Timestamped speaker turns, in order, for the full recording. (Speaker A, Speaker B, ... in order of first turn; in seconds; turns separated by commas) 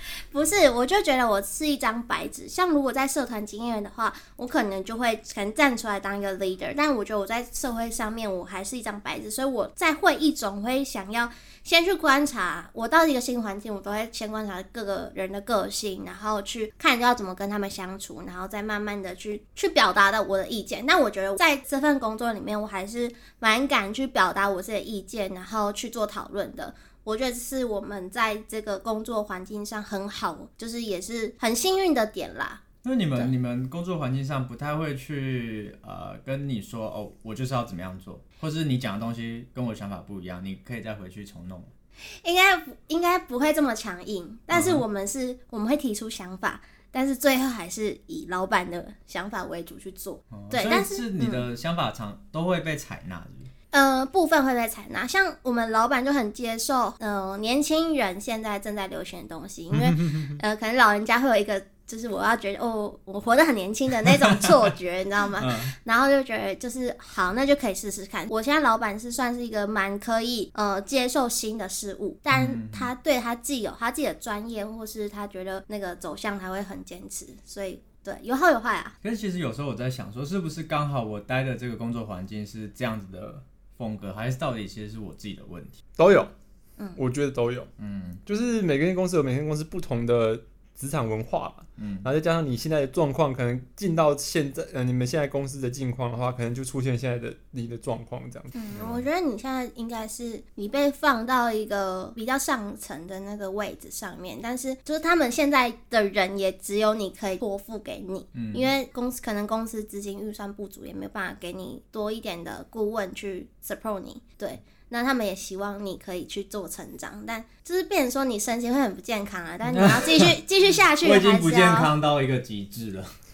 Speaker A: 0.3-32.6, Speaker B: 32.8-41.7, Speaker A: 42.1-51.4, Speaker B: 44.5-44.8, Speaker B: 50.3-53.5, Speaker A: 53.7-78.9, Speaker B: 65.4-65.7, Speaker B: 72.3-72.9, Speaker B: 79.0-85.8, Speaker C: 86.0-86.3, Speaker C: 87.0-87.7, Speaker B: 87.8-88.2, Speaker C: 88.2-98.5, Speaker B: 91.8-92.1, Speaker A: 98.5-121.9, Speaker B: 98.7-99.0, Speaker B: 108.3-108.7, Speaker B: 119.7-120.3, Speaker B: 121.0-123.1